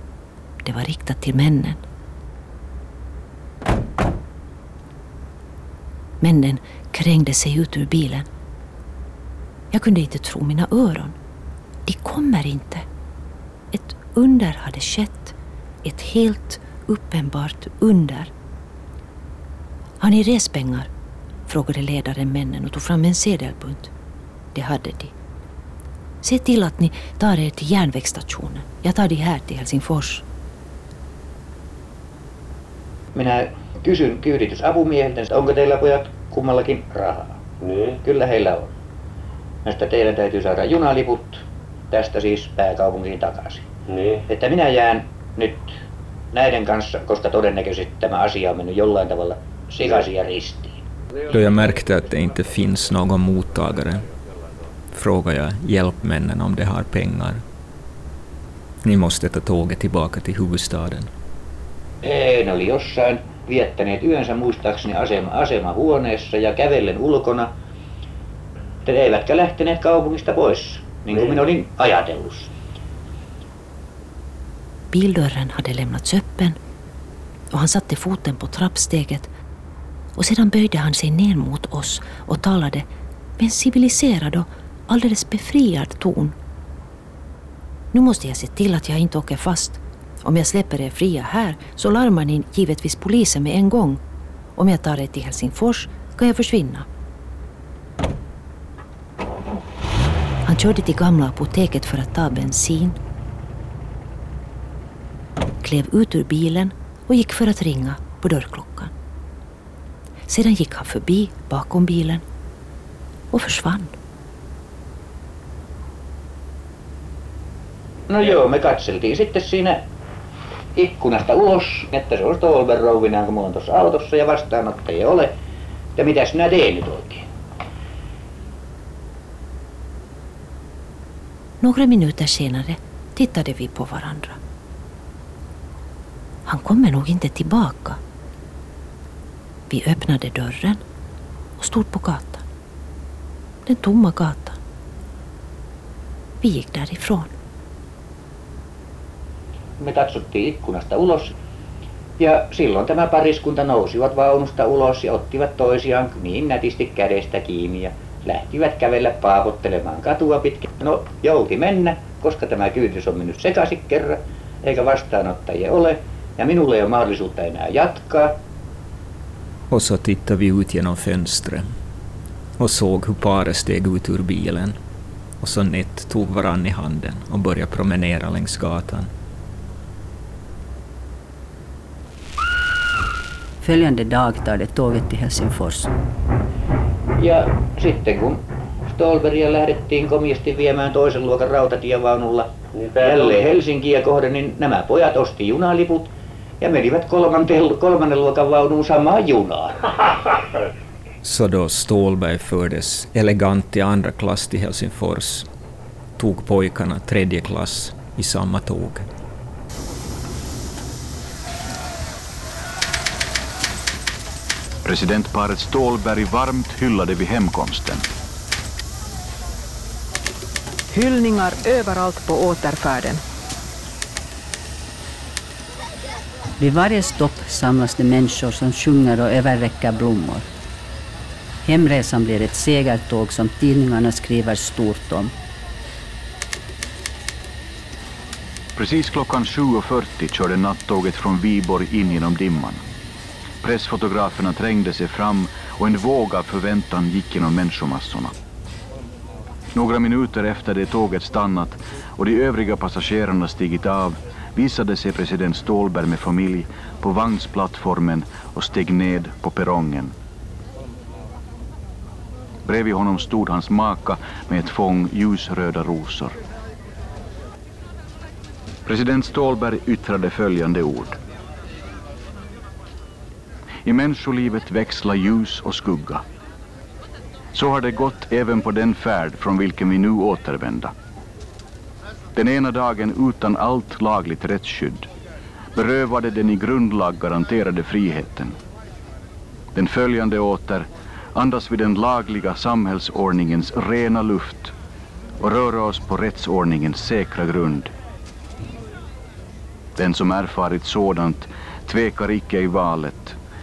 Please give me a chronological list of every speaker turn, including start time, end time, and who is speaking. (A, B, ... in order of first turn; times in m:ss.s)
0:00.6-0:01.8 A
0:06.2-0:08.3 A
0:09.7-0:11.2 A
0:11.9-0:12.9 A
0:13.7-0:18.3 A
0:20.0-0:20.9 A
0:21.5-0:23.9 A
0:24.5-0:25.1 A
0:26.2-0:30.2 A
0:33.1-0:37.4 B
0:37.6-0:38.0 C
0:38.0-0:38.7 B
0:39.6-0:43.6 B
0:43.9-0:44.3 C
0:44.3-0:45.7 B
0:46.3-0:50.8 B
0:51.2-0:52.1 C
0:51.3-0:54.0 D
0:53.8-0:54.3 C
0:54.9-0:57.4 D
0:58.8-1:01.1 D
1:02.0-1:07.5 B
1:08.8-1:12.5 B
1:14.9-1:16.6 A
1:17.5-1:19.3 A
1:20.1-1:26.4 A
1:27.9-1:34.0 A
1:34.6-1:36.9 A
1:40.4-1:43.0 A
1:45.6-1:48.9 A
1:50.3-1:52.2 A
1:53.3-1:54.0 A
1:58.1-1:59.8 B
2:00.8-2:05.3 B
2:06.0-2:07.3 B
2:11.6-2:14.4 A
2:16.4-2:18.0 A
2:19.7-2:20.8 A
2:21.6-2:22.4 A
2:23.7-2:24.6 A
2:26.4-2:27.3 A
2:29.8-2:31.3 B
2:32.2-2:48.4 B
2:49.7-2:51.7 D
2:52.6-2:54.8 D
2:55.4-2:59.1 D
3:03.6-3:05.9 E
3:07.2-3:08.4 B
3:08.9-3:16.1 B
3:12.7-3:13.6 C
3:16.6-3:19.9 B
3:21.2-3:25.5 D
3:26.2-3:29.0 D
3:34.8-3:38.1 F
3:40.9-3:43.2 G
3:46.6-3:50.4 E
3:51.6-3:55.3 E
3:58.8-4:02.8 F
4:03.6-4:08.3 F
4:09.7-4:20.1 F
4:22.7-4:26.4 F
4:28.9-4:31.2 F
4:33.8-4:36.2 F
4:37.5-4:40.9 F
4:42.3-4:45.1 F
4:45.7-4:48.6 F
4:49.7-4:54.7 F
4:55.4-4:57.9 F
5:00.0-5:03.4 F